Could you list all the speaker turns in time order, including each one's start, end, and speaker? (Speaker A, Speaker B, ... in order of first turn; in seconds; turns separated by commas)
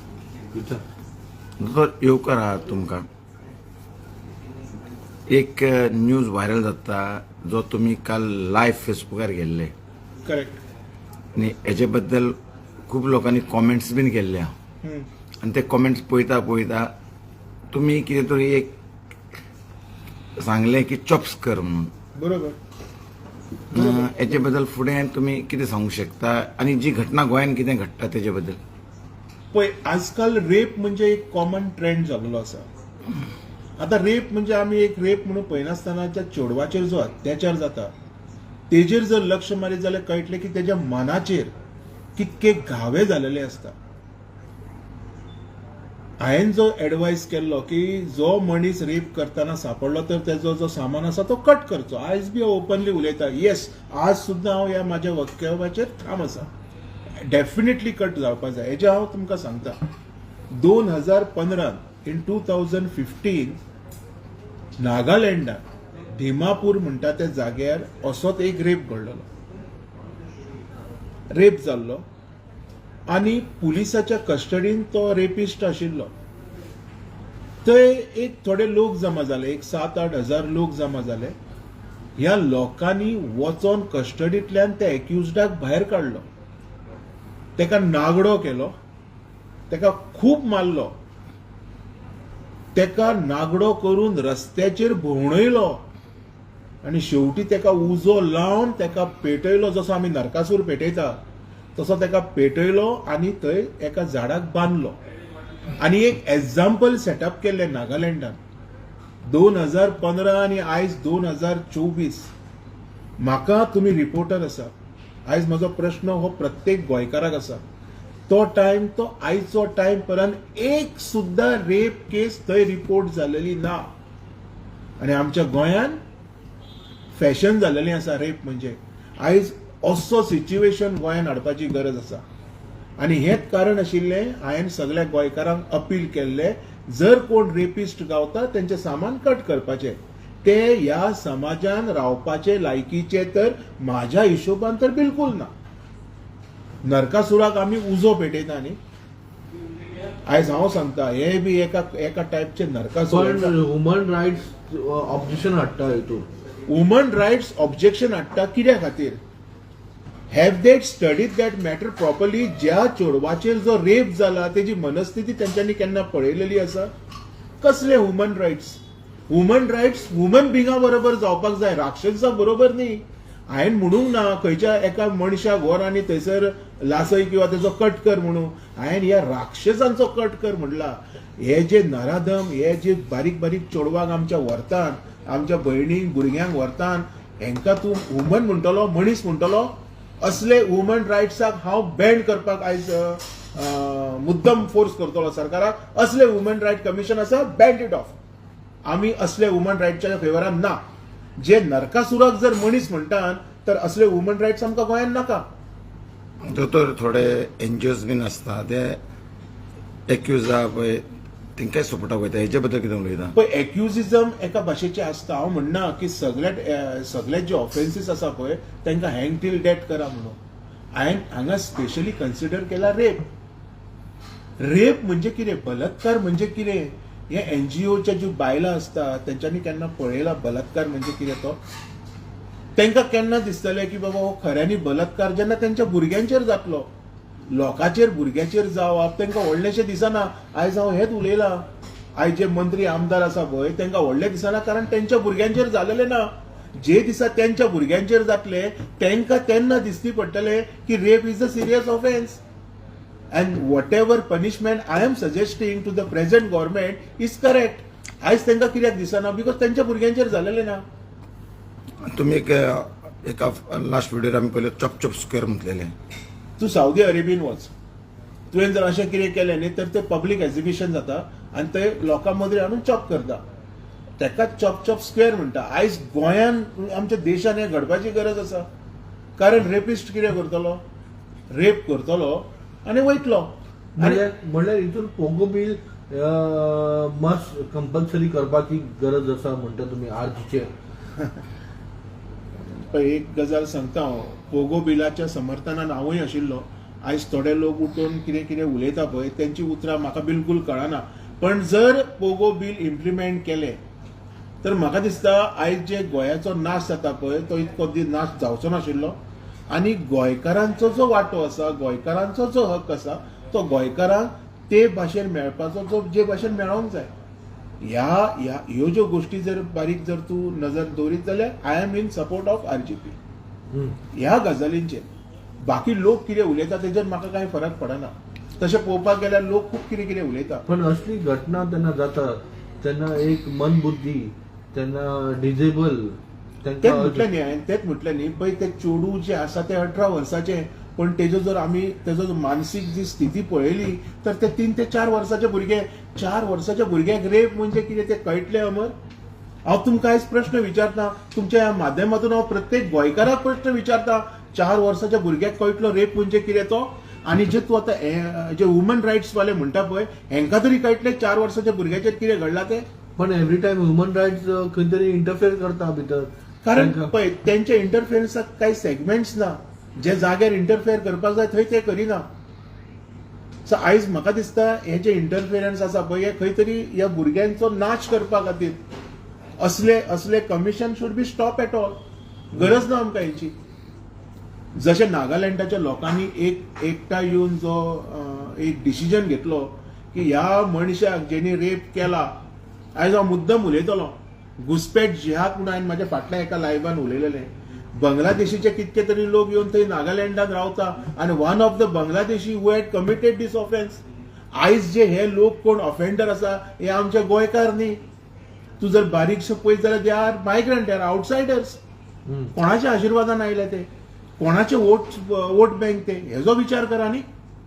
Speaker A: 0.5-0.8, Speaker B: 1.6-3.0, Speaker B: 5.3-9.7, Speaker C: 10.2-10.6, Speaker B: 11.3-12.3, Speaker B: 12.9-14.5, Speaker C: 14.8-15.1, Speaker B: 15.4-16.9, Speaker B: 17.7-18.7, Speaker B: 20.4-21.9, Speaker C: 22.2-22.6, Speaker B: 23.7-28.6, Speaker C: 23.7-24.1, Speaker C: 29.5-32.7, Speaker C: 33.8-37.9, Speaker C: 38.7-41.5, Speaker C: 42.2-43.7, Speaker C: 46.2-56.5, Speaker C: 57.2-59.8, Speaker C: 60.5-63.6, Speaker C: 64.8-65.6, Speaker C: 66.1-69.2, Speaker C: 71.3-72.0, Speaker C: 73.1-76.1, Speaker C: 77.6-81.3, Speaker C: 82.2-86.2, Speaker C: 87.6-88.7, Speaker C: 89.7-90.9, Speaker C: 92.8-95.8, Speaker C: 96.8-101.2, Speaker C: 101.8-105.0, Speaker C: 105.8-108.4, Speaker C: 109.2-112.3, Speaker C: 113.2-114.7, Speaker C: 115.3-117.6, Speaker C: 118.3-123.9, Speaker C: 125.0-126.0, Speaker C: 127.1-132.2, Speaker C: 133.0-145.5, Speaker C: 146.8-148.8, Speaker C: 150.3-153.5, Speaker A: 153.1-156.3, Speaker C: 156.7-159.2, Speaker C: 160.3-166.9, Speaker C: 167.6-168.8, Speaker C: 169.3-198.2, Speaker C: 198.8-200.8, Speaker C: 201.4-205.4, Speaker B: 206.5-209.0, Speaker B: 210.1-211.0, Speaker B: 211.6-213.3, Speaker C: 213.3-220.4, Speaker C: 220.9-223.3, Speaker C: 224.6-231.6, Speaker C: 232.8-236.9, Speaker C: 237.5-241.6, Speaker C: 242.2-252.4, Speaker C: 253.3-260.8, Speaker B: 262.1-265.9, Speaker C: 266.6-267.7, Speaker C: 268.5-273.4, Speaker C: 274.2-278.7, Speaker C: 279.4-280.8, Speaker C: 281.5-284.3, Speaker A: 284.0-290.7, Speaker C: 292.6-303.8, Speaker C: 304.6-309.2, Speaker C: 309.7-317.1, Speaker C: 317.8-323.2, Speaker A: 323.7-324.0, Speaker C: 324.1-325.1, Speaker C: 325.6-330.6, Speaker A: 330.7-337.3, Speaker C: 336.8-348.9, Speaker C: 349.7-362.9, Speaker A: 363.2-367.1, Speaker C: 366.6-372.3, Speaker C: 373.7-378.8, Speaker C: 379.6-382.0, Speaker C: 382.5-383.5, Speaker A: 382.5-382.8, Speaker C: 384.8-392.3, Speaker C: 393.0-404.0, Speaker C: 404.6-408.0, Speaker C: 408.8-411.8, Speaker A: 412.3-412.5, Speaker C: 412.6-413.9, Speaker C: 414.4-417.2